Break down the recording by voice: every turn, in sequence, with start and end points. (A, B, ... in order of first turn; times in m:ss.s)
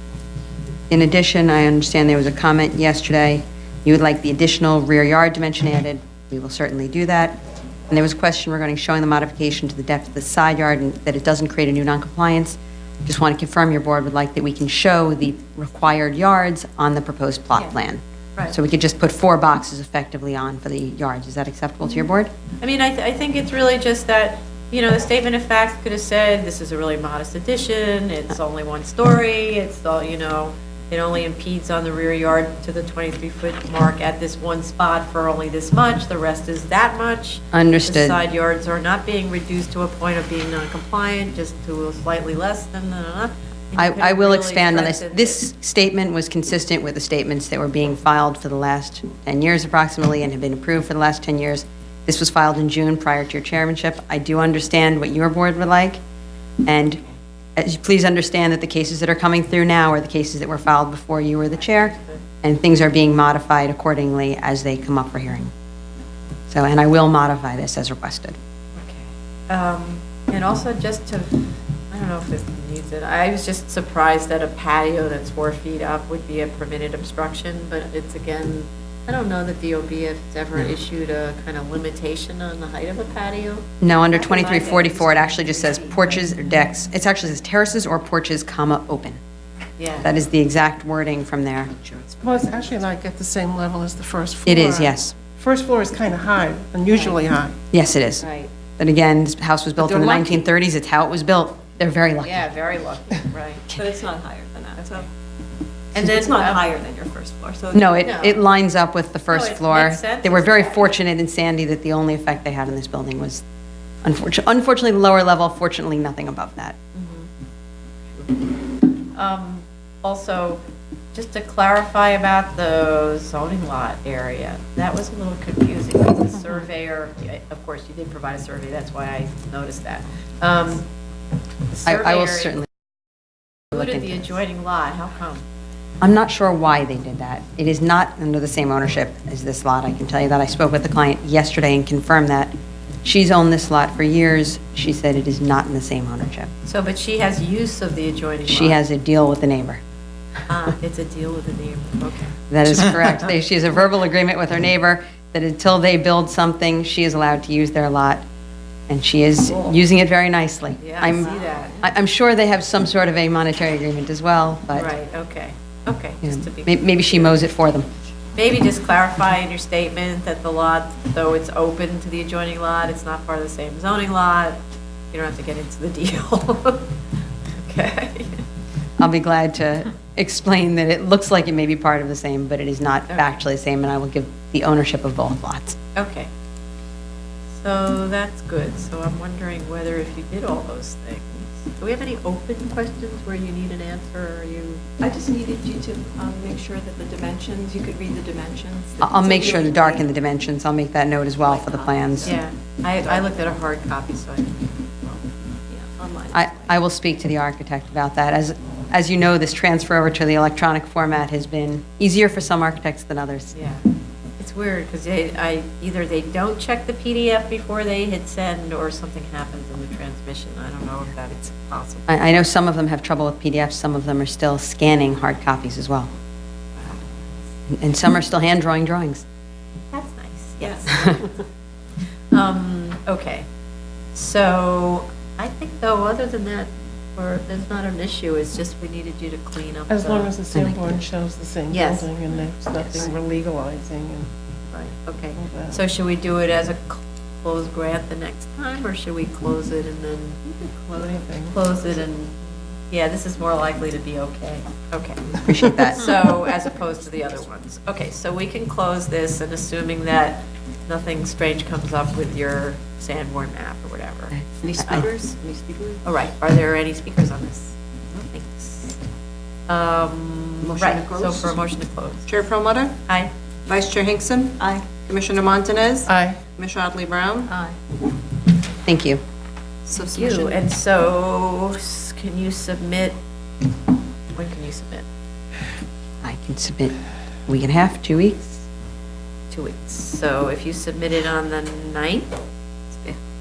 0:00.9-0:07.4 A
0:07.9-0:22.3 A
0:22.6-0:45.4 B
0:37.5-0:38.2 A
0:43.7-0:56.0 A
0:56.6-0:57.0 A
0:56.9-0:57.2 B
0:57.6-1:05.5 A
1:01.6-1:02.2 B
1:06.5-1:08.4 A
1:08.8-1:23.7 B
1:23.8-1:29.2 A
1:24.1-1:26.3 C
1:29.8-1:30.1 B
1:30.0-1:31.7 A
1:31.9-1:32.8 C
1:32.2-1:37.6 D
1:34.4-1:35.2 A
1:37.7-1:42.4 A
1:39.9-1:40.3 E
1:42.2-1:43.8 B
1:43.7-1:45.1 C
1:44.8-1:45.0 B
1:46.0-1:46.6 B
1:46.0-1:47.9 C
1:47.7-1:53.4 A
1:48.0-1:48.4 B
1:49.3-1:51.0 B
1:54.0-1:56.8 A
1:56.9-1:57.3 B
1:58.2-1:58.4 B
1:59.1-2:00.6 B
2:01.1-2:10.9 B
2:11.7-2:12.6 B
2:11.8-2:12.7 A
2:13.7-2:14.3 A
2:13.7-2:15.4 B
2:16.0-2:22.5 A
2:23.0-2:26.5 A
2:26.6-2:28.8 B
2:28.5-2:29.8 A
2:30.5-2:32.4 B
2:32.5-2:38.2 A
2:38.9-2:44.9 A
2:40.8-2:41.8 B
2:44.7-2:47.4 B
2:46.2-2:47.9 A
2:48.4-2:54.6 B
2:55.1-2:56.9 B
2:57.6-2:58.4 B
2:59.0-3:05.8 A
3:03.1-3:03.4 B
3:06.0-3:06.3 B
3:07.6-3:14.9 B
3:15.0-3:20.1 C
3:19.0-3:22.3 A
3:21.4-3:22.4 C
3:22.2-3:25.2 B
3:23.1-3:23.3 C
3:25.7-3:26.7 C
3:26.3-3:33.5 A
3:33.5-3:33.8 B
3:34.4-3:42.4 B
3:42.1-3:46.1 A
3:46.8-3:47.1 B
3:47.7-3:49.2 A
3:49.9-3:51.4 B
3:52.3-3:53.4 B
3:54.1-4:00.3 B
3:59.9-4:04.3 D
4:00.5-4:01.0 A
4:01.7-4:02.1 B
4:02.7-4:03.1 B
4:04.7-4:12.3 B
4:05.4-4:05.8 D
4:10.9-4:11.8 D
4:12.9-4:25.1 B
4:15.4-4:16.2 A
4:24.3-4:25.1 A
4:24.6-4:26.0 C
4:26.0-4:27.8 B
4:28.3-4:29.0 B
4:29.7-4:32.3 B
4:30.6-4:31.6 E
4:32.3-4:32.9 E
4:33.7-4:37.5 E
4:34.5-4:35.1 C
4:36.1-4:36.5 D
4:37.5-4:37.8 B
4:38.8-4:39.2 A
4:39.9-4:40.5 C
4:39.9-4:43.2 B
4:40.2-4:40.5 E
4:44.3-4:45.1 B
4:46.2-4:46.9 A
4:47.5-4:48.6 A
4:49.5-4:52.3 B